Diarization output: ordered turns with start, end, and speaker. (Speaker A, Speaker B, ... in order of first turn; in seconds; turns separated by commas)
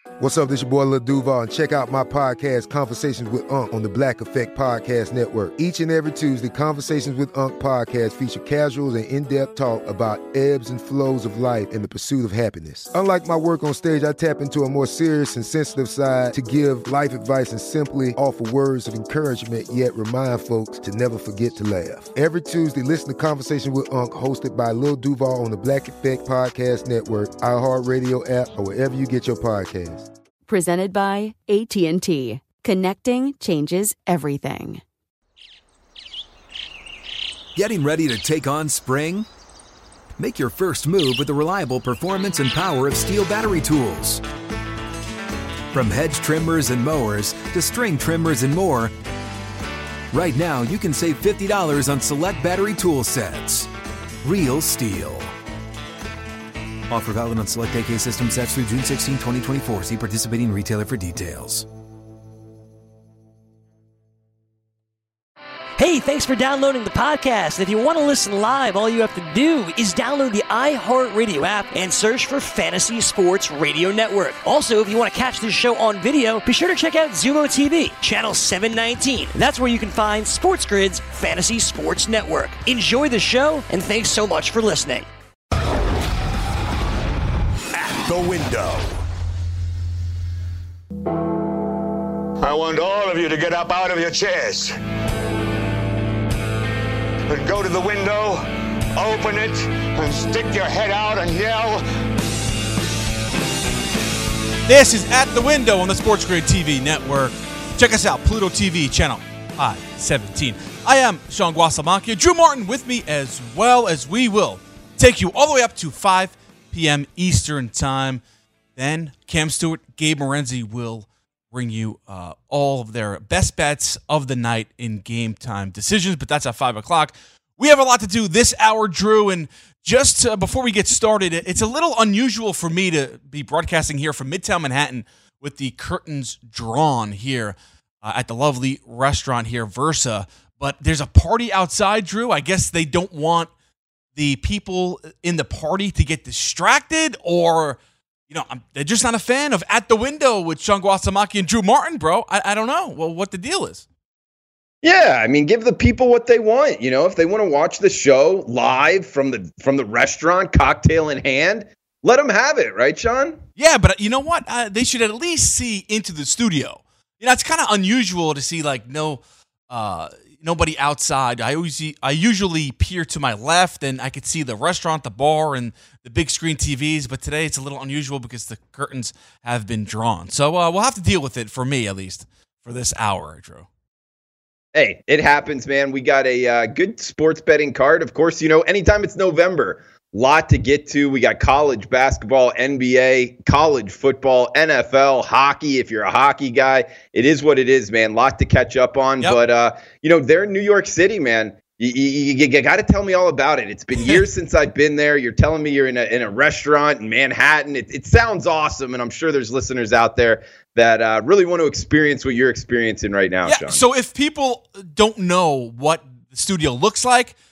Speaker A: 0.2-30.1, Speaker B: 30.5-34.8, Speaker C: 37.6-39.3, Speaker C: 40.2-44.2, Speaker C: 45.7-48.9, Speaker C: 50.1-53.7, Speaker C: 54.2-55.3, Speaker C: 56.9-61.7, Speaker D: 65.8-85.1, Speaker E: 87.7-88.9, Speaker E: 92.4-94.8, Speaker E: 97.3-101.8, Speaker F: 104.7-118.2, Speaker F: 118.8-143.5, Speaker F: 144.2-153.9, Speaker G: 154.8-163.4, Speaker F: 163.6-183.7, Speaker G: 184.7-213.8, Speaker F: 204.0-204.2, Speaker F: 213.5-217.3